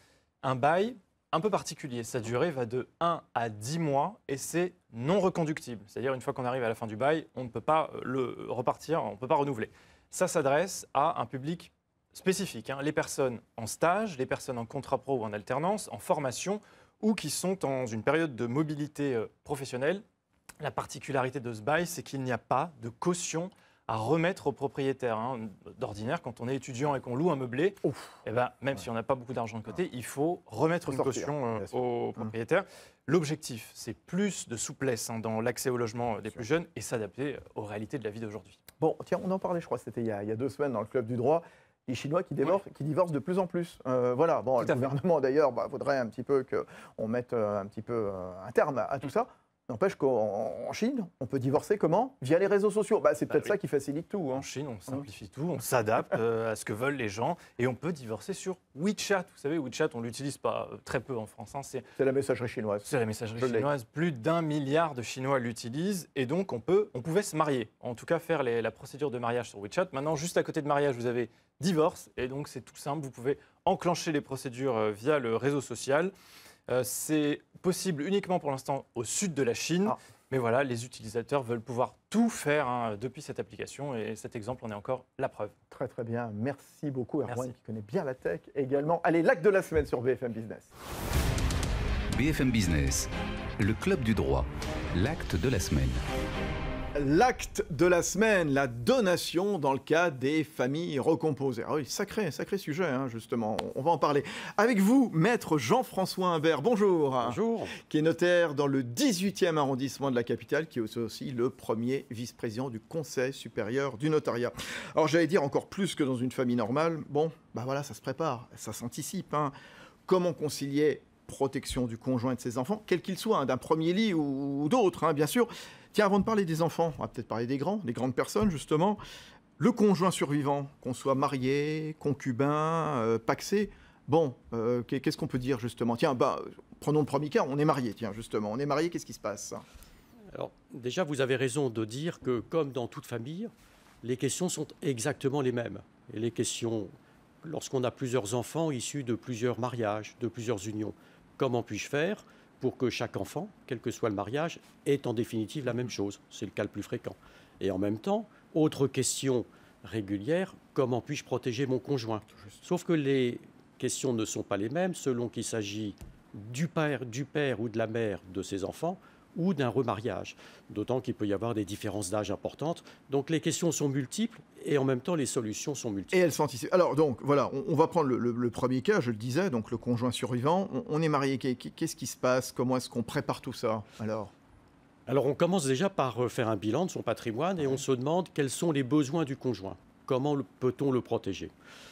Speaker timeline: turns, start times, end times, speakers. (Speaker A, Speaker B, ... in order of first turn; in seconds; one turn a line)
Speaker A: 0.4-20.0
Speaker A: 20.6-38.6
Speaker B: 27.8-28.2
Speaker B: 30.9-32.3
Speaker B: 38.8-55.0
Speaker A: 44.6-44.9
Speaker A: 54.4-61.9
Speaker B: 62.0-62.9
Speaker A: 62.9-76.1
Speaker B: 63.4-63.7
Speaker A: 76.7-85.5
Speaker B: 85.7-90.7
Speaker C: 92.1-96.0
Speaker B: 97.0-119.5
Speaker D: 107.2-107.8
Speaker B: 120.1-129.0
Speaker B: 129.6-139.6
Speaker D: 140.3-143.5
Speaker D: 144.0-146.9
Speaker D: 147.4-176.2
Speaker B: 176.1-184.3
Speaker D: 185.1-191.5
Speaker B: 187.6-187.8